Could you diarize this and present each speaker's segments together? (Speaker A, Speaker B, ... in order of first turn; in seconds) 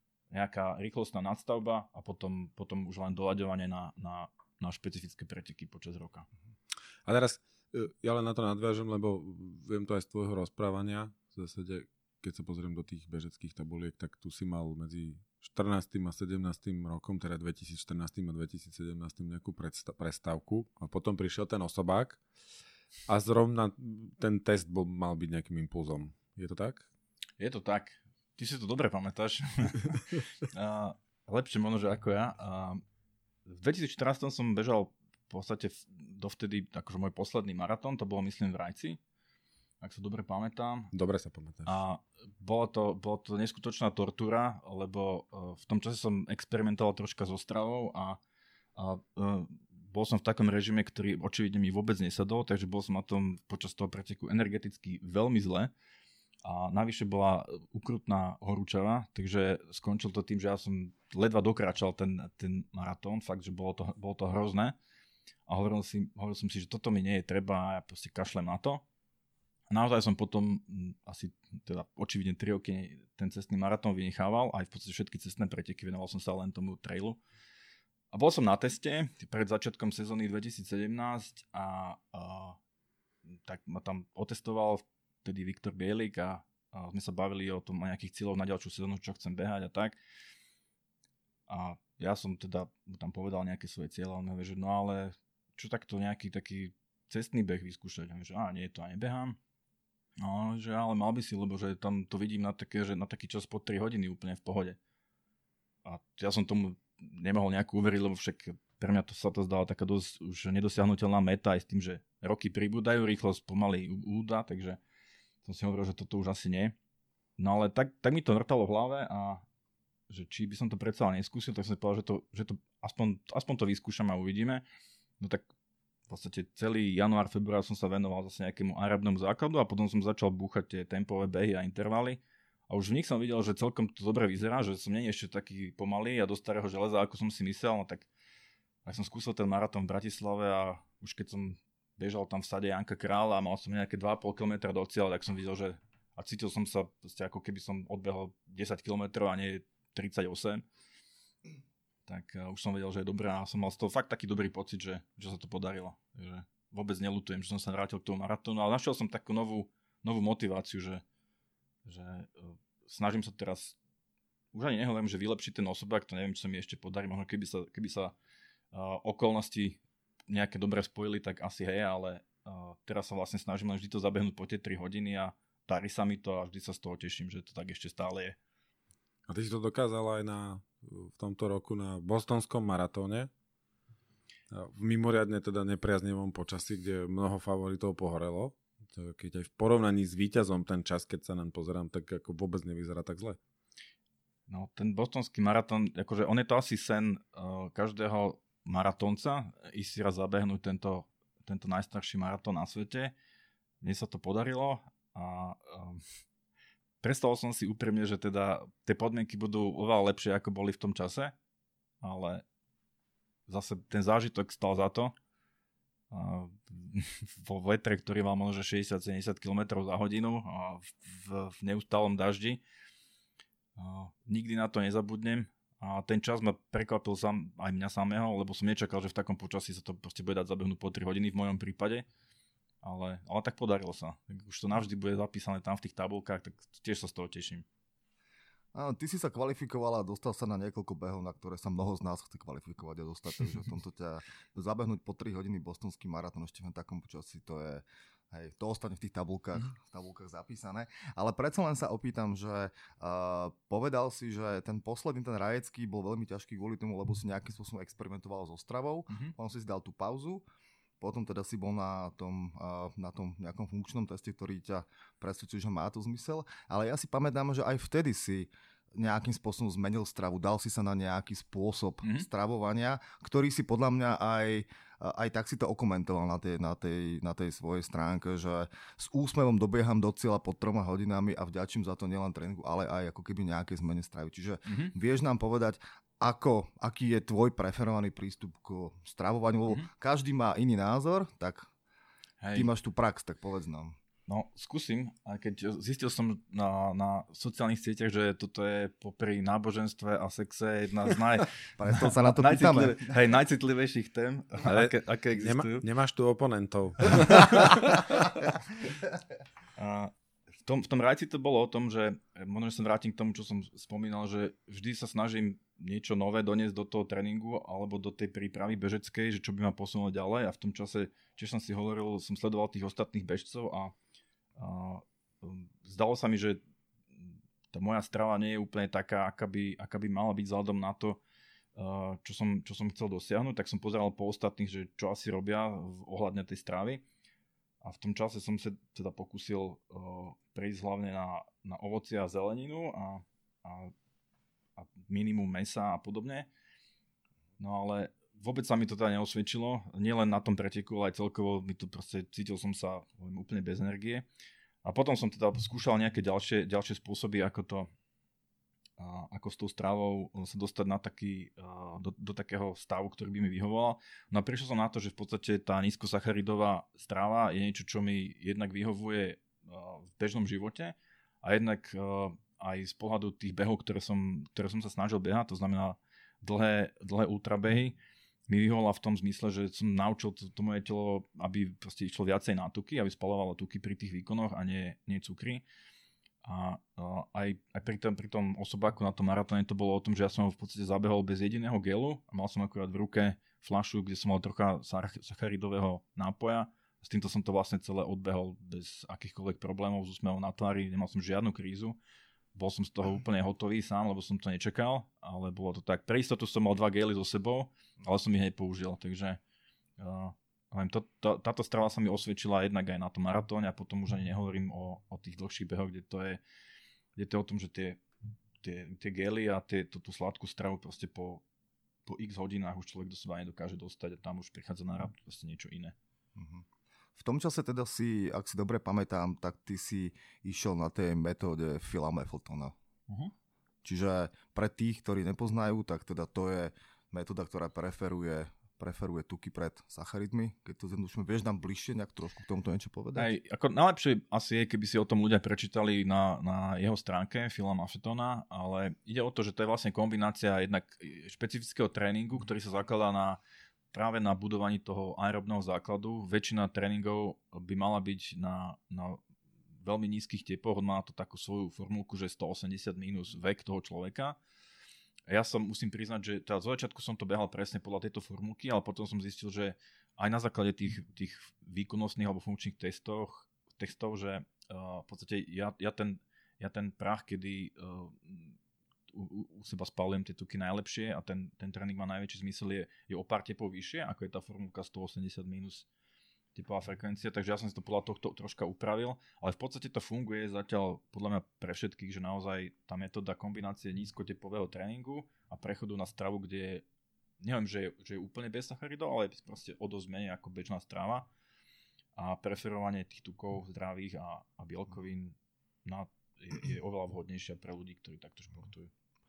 Speaker A: 0.3-6.3, 27.4-32.8, 33.5-39.0, 39.8-40.9, 41.7-48.2, 48.8-55.7, 56.4-64.8, 65.5-68.8, 69.7-77.2, 78.1-82.6, 83.3-90.0, 91.5-99.4, 100.2-104.8, 105.8-114.8, 115.4-116.8, 117.4-119.4, 120.1-124.7, 125.2-125.5, 126.1-138.1, 138.8-150.7, 152.1-161.0, 161.8-163.8, 164.5-168.2, 168.7-178.4, 194.5-203.1, 203.8-206.0, 207.0-211.3, 212.0-212.4, 213.5-215.1, 216.1-222.6, 223.8-232.1, 232.8-237.7, 259.1-259.3, 284.7-284.9, 292.4-292.7, 294.3-305.9, 309.8-323.9, 324.6-326.6, 327.2-331.2, 331.8-337.0, 337.8-343.9, 344.8-346.5, 347.6-354.2, 354.8-357.9, 359.0-378.0, 378.5-385.6, 386.4-402.0, 402.6-409.4, 410.0-416.4, 417.2-418.0, 418.6-421.4, 422.1-425.9, 443.2-453.4, 453.9-459.2, 459.8-464.4, 465.3-478.6, 479.1-485.9, 486.6-496.9, 497.4-501.3, 502.2-508.9
Speaker B: 7.1-22.2, 23.1-26.9, 40.9-41.8, 179.3-183.3, 184.5-193.4, 304.6-308.4
Speaker C: 238.7-260.5, 261.0-291.7, 292.5-294.0, 301.8-303.2, 426.4-432.8, 433.8-443.3